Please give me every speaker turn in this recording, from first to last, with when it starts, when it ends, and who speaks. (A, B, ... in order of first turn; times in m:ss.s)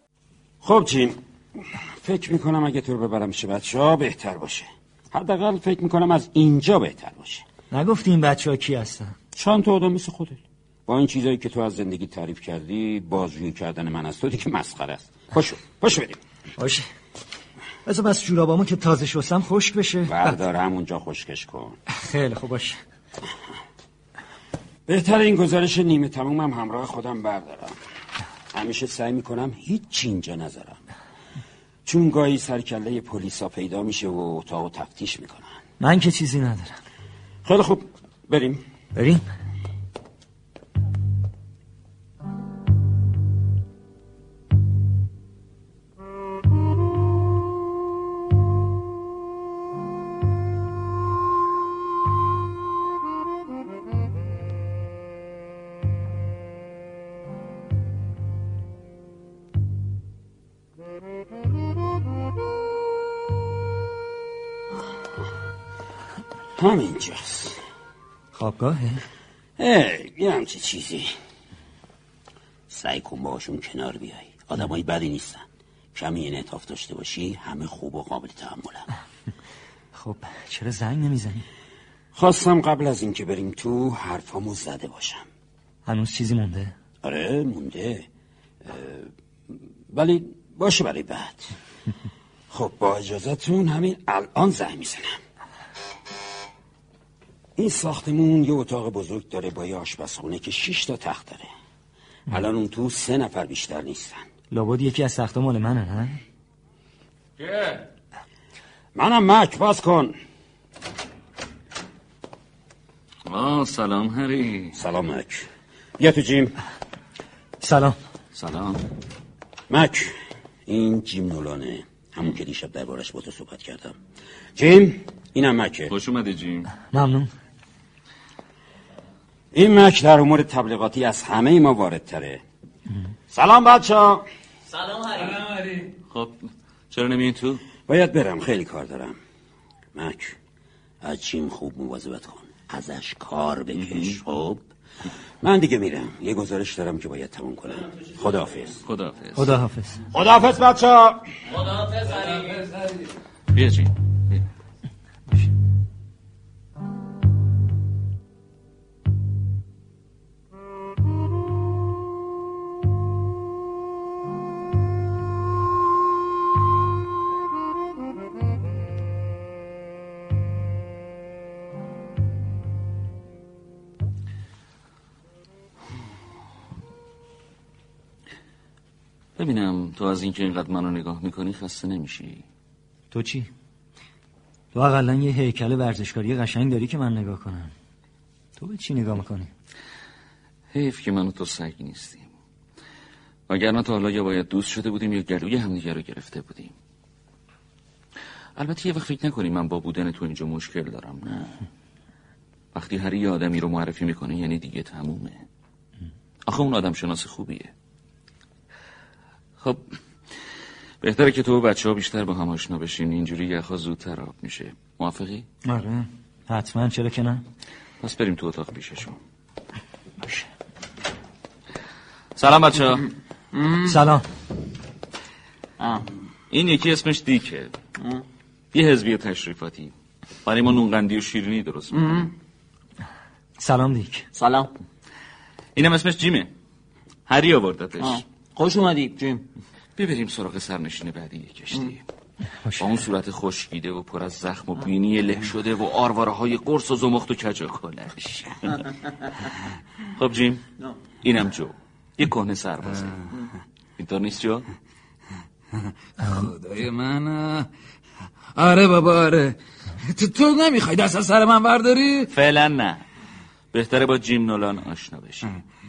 0:00.6-0:01.2 A
0:01.8-0:07.4 A
0:07.7-0:09.1 B
0:09.3-0:16.2 A
0:16.6-0:16.9 B
0:17.8-0:20.3 B
0:20.1-0:21.8 A
0:21.9-0:22.8 B
0:24.9-0:27.7 A
0:28.5-0:30.8 A
0:31.8-0:35.5 A
0:35.8-0:36.7 B
0:37.4-0:38.6 A
0:39.0-0:39.2 B
1:06.6-1:07.6 A
1:08.3-1:09.0 B
1:09.6-1:11.1 A
1:12.7-1:18.9 A
1:19.9-1:21.4 B
1:22.1-1:25.2 A
1:25.8-1:26.7 B
1:27.0-1:28.0 A
1:28.6-1:29.1 A
1:29.9-1:31.5 A
1:32.5-1:35.2 A
1:37.6-1:41.5 A
1:42.3-1:44.2 A
1:44.5-1:46.2 B
1:47.4-1:47.9 C
1:48.9-1:50.1 A
1:53.3-1:54.8 C
1:54.8-1:55.4 A
1:56.0-1:56.6 A
1:57.6-1:58.0 B
1:58.3-1:58.8 C
1:59.7-2:00.1 A
2:00.7-2:04.0 A
2:04.6-2:05.9 A
2:05.9-2:06.7 C
2:06.9-2:07.3 B
2:09.5-2:12.4 A
2:13.3-2:14.2 A
2:14.7-2:15.4 D
2:15.4-2:15.9 E
2:16.1-2:16.4 C
2:16.9-2:17.6 C
2:17.9-2:19.2 A
2:19.9-2:20.3 A
2:21.0-2:24.6 A
2:23.8-2:24.2 C
2:25.4-2:28.8 A
2:28.8-2:29.5 C
2:29.4-2:30.0 B
2:30.1-2:31.2 A
2:31.5-2:32.5 D
2:32.6-2:33.1 E
2:33.5-2:34.4 C
2:59.4-3:02.4 C
3:03.1-3:03.5 B
3:04.7-3:07.7 B
3:08.6-3:09.5 B
3:10.7-3:12.3 C
3:13.5-3:16.8 C
3:18.6-3:21.7 C
3:22.7-3:25.4 C
3:26.5-3:27.7 C
3:31.0-3:35.4 C
3:35.7-3:37.4 B
3:38.0-3:39.2 C
3:42.3-3:43.1 C
3:43.5-3:44.0 D
3:43.8-3:44.2 B
3:45.8-3:46.1 D
3:46.5-3:47.7 C
3:48.0-3:48.2 D
3:48.7-3:49.9 C
3:50.4-3:52.3 C
3:51.9-3:52.3 D
3:53.6-3:54.3 B
3:54.3-3:54.7 D
3:55.8-3:56.5 C
3:57.3-3:58.2 C
3:58.0-3:59.4 D
4:00.0-4:02.0 C
4:02.8-4:08.9 C
4:08.8-4:09.1 D
4:10.2-4:10.6 C
4:11.2-4:13.2 C
4:14.0-4:14.7 C
4:15.7-4:17.7 E
4:18.6-4:22.3 E
4:22.3-4:23.0 C
4:23.7-4:25.5 C